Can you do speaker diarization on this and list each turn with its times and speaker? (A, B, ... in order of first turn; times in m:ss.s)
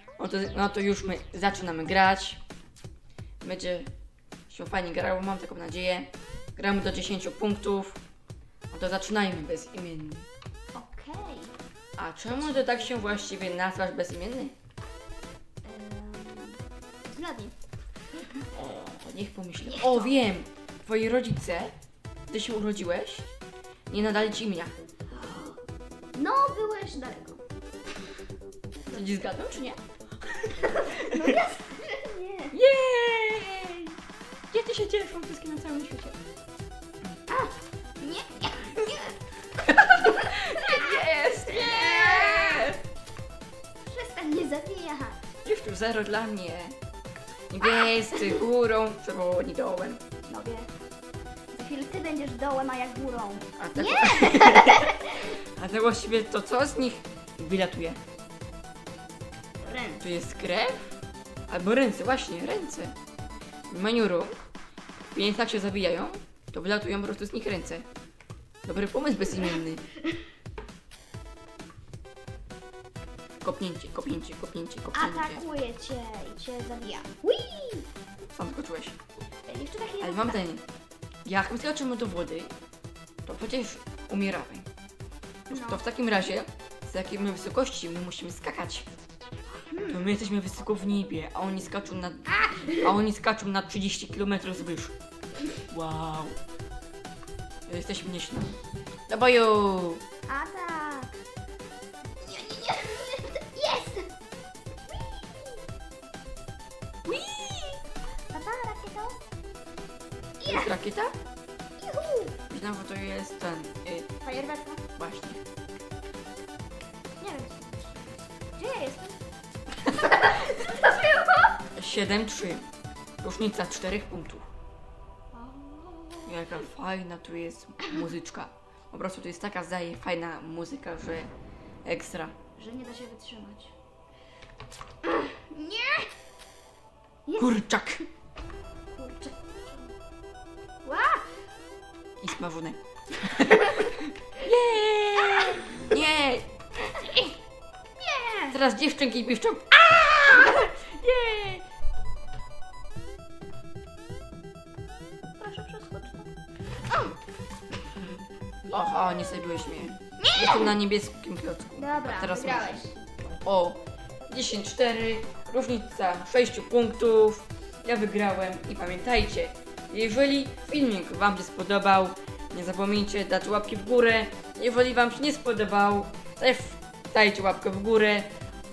0:00.2-0:02.4 A
0:03.4-0:03.9 A
0:04.5-0:08.0 A
0:08.7-0:10.3 A
0:10.7-0:11.5 B
0:12.0-0:14.5 A
0:12.3-0:13.1 B
0:15.6-0:17.6 B
0:18.5-0:21.7 A
0:19.7-0:20.1 B
0:22.3-0:23.3 A
0:23.9-0:24.7 A
0:25.1-0:25.6 B
0:26.2-0:27.4 B
0:28.9-0:29.8 A
0:30.4-0:31.2 A
0:30.6-0:32.6 B
0:32.5-0:33.9 A
0:34.5-0:36.2 A
0:37.3-0:42.8 B
0:39.6-0:42.8 A
0:43.9-0:45.2 B
0:45.4-0:46.8 A
0:47.5-0:50.0 A
0:47.6-0:48.4 B
0:50.3-0:50.7 B
0:51.5-0:55.3 B
0:53.6-0:58.0 A
0:59.6-1:00.0 B
1:00.0-1:01.0 A
1:01.5-1:02.9 A
1:03.7-1:04.4 A
1:05.1-1:07.8 A
1:08.6-1:09.8 A
1:13.4-1:15.4 A
1:14.9-1:17.9 B
1:18.4-1:19.0 A
1:19.5-1:20.4 B
1:20.0-1:20.6 A
1:21.2-1:22.5 A
1:23.3-1:24.7 A
1:25.5-1:28.9 A
1:25.5-1:25.8 B
1:29.7-1:30.0 B
1:29.9-1:35.0 A
1:32.3-1:33.0 B
1:35.7-1:36.4 A
1:37.7-1:38.5 A
1:39.1-1:40.0 A
1:40.3-1:41.1 B
1:42.2-1:44.1 B
1:44.9-1:45.6 B
1:47.1-1:47.8 A
1:48.3-1:49.2 B
1:50.4-1:50.8 B
1:50.5-1:51.2 A
1:51.8-1:52.4 B
1:52.5-1:54.1 A
1:54.2-1:54.8 B
1:55.0-1:55.4 A
1:57.2-1:59.2 B
1:59.9-2:01.6 B
2:01.8-2:02.7 A
2:03.2-2:04.4 A
2:05.3-2:06.5 B
2:06.3-2:11.3 A
2:11.8-2:12.3 A
2:12.6-2:13.7 B
2:15.0-2:16.1 B
2:17.3-2:17.6 B
2:17.4-2:18.0 A
2:18.9-2:20.0 B
2:20.8-2:21.3 B
2:22.2-2:27.3 A
2:25.2-2:25.8 B
2:28.0-2:28.6 B
2:28.5-2:31.6 A
2:35.4-2:36.3 B
2:38.7-2:42.8 A
2:40.2-2:40.8 B
2:41.8-2:43.0 B
2:43.4-2:58.3 A